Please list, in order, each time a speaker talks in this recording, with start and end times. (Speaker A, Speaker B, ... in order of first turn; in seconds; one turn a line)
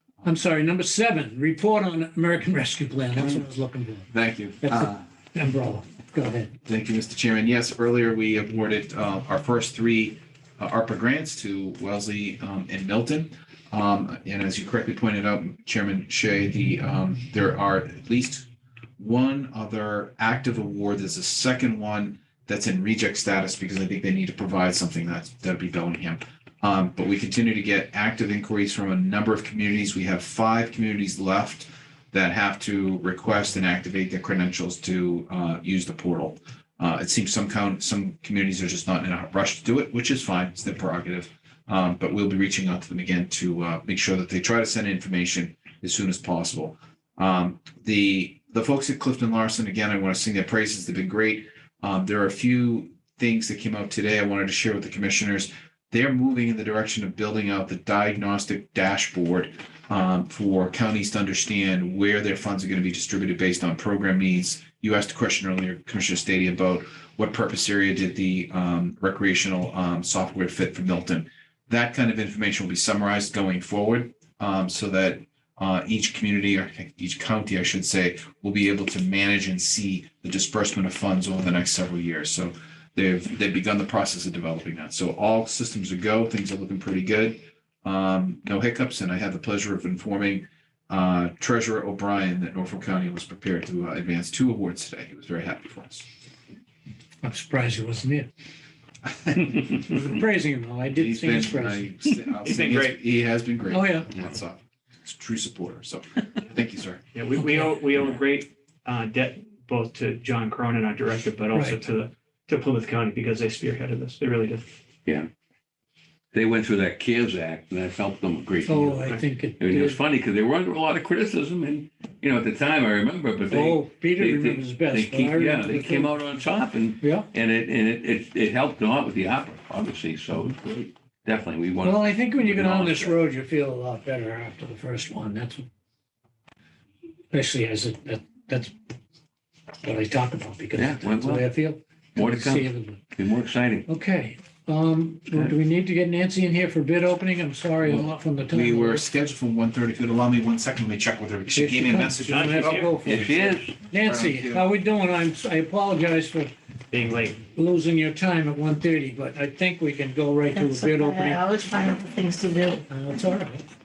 Speaker A: 0.2-4.1
Speaker B: 4.1-5.0
Speaker A: 4.6-6.5
Speaker B: 6.7-96.1
Speaker A: 97.2-98.3
Speaker B: 99.2-99.8
Speaker A: 99.8-101.9
Speaker B: 100.9-107.0
Speaker C: 102.5-103.0
Speaker A: 103.7-104.1
Speaker C: 107.1-114.7
Speaker A: 107.4-107.8
Speaker A: 111.5-111.8
Speaker D: 116.3-133.2
Speaker A: 118.7-120.0
Speaker A: 123.5-126.5
Speaker A: 127.0-127.3
Speaker A: 131.8-135.7
Speaker A: 137.3-138.7
Speaker A: 139.8-143.0
Speaker D: 140.8-141.5
Speaker D: 142.2-143.9
Speaker A: 143.9-149.1
Speaker B: 147.8-154.7
Speaker A: 151.5-156.5
Speaker C: 152.2-153.0
Speaker D: 153.1-153.8
Speaker C: 156.9-157.4
Speaker A: 157.5-161.4
Speaker E: 160.5-163.3
Speaker A: 162.9-163.7